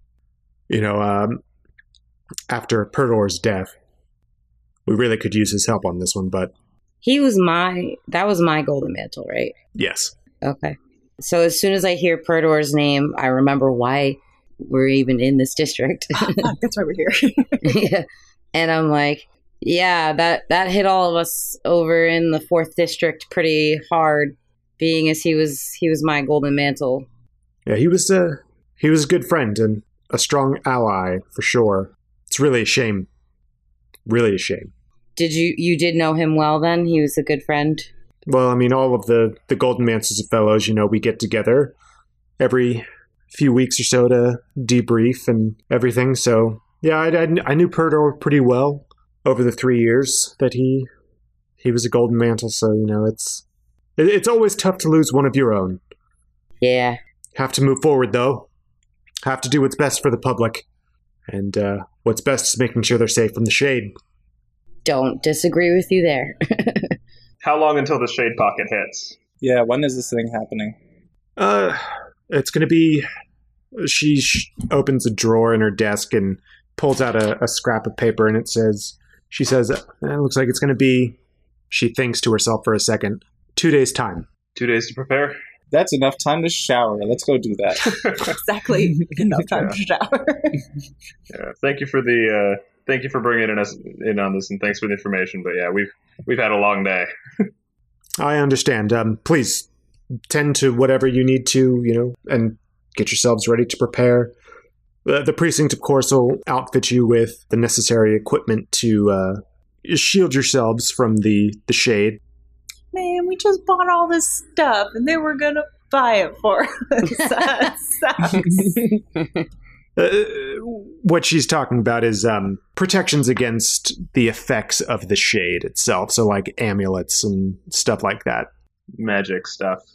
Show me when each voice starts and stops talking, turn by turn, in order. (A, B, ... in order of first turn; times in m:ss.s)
0:00.7-0:01.4 A
0:02.5-0:03.7 A
0:04.9-0:06.5 A
0:07.0-0:09.6 B
0:09.8-0:10.1 A
0:10.4-0:16.5 B
0:16.2-0:17.8 C
0:17.6-0:27.1 B
0:27.7-0:33.1 A
0:34.1-0:34.7 A
0:35.2-0:37.9 B
0:38.3-0:41.8 A
0:42.4-0:50.9 A
0:51.6-0:53.4 A
0:54.0-0:55.8 A
0:56.6-0:57.0 B
0:57.4-0:58.5 A
0:59.2-1:00.6 A
1:01.3-1:03.9 A
1:04.8-1:07.0 B
1:07.4-1:09.2 D
1:09.4-1:10.8 E
1:11.4-1:13.1 A
1:13.8-1:21.2 A
1:21.7-1:24.3 A
1:24.6-1:25.4 D
1:25.7-1:28.2 E
1:28.3-1:30.6 C
1:31.3-1:37.1 D
1:38.2-1:39.7 A
1:40.3-1:44.3 A
1:45.0-1:52.2 A
1:52.9-1:58.8 C
1:58.4-1:58.8 E
2:00.0-2:08.5 A
2:09.0-2:09.8 D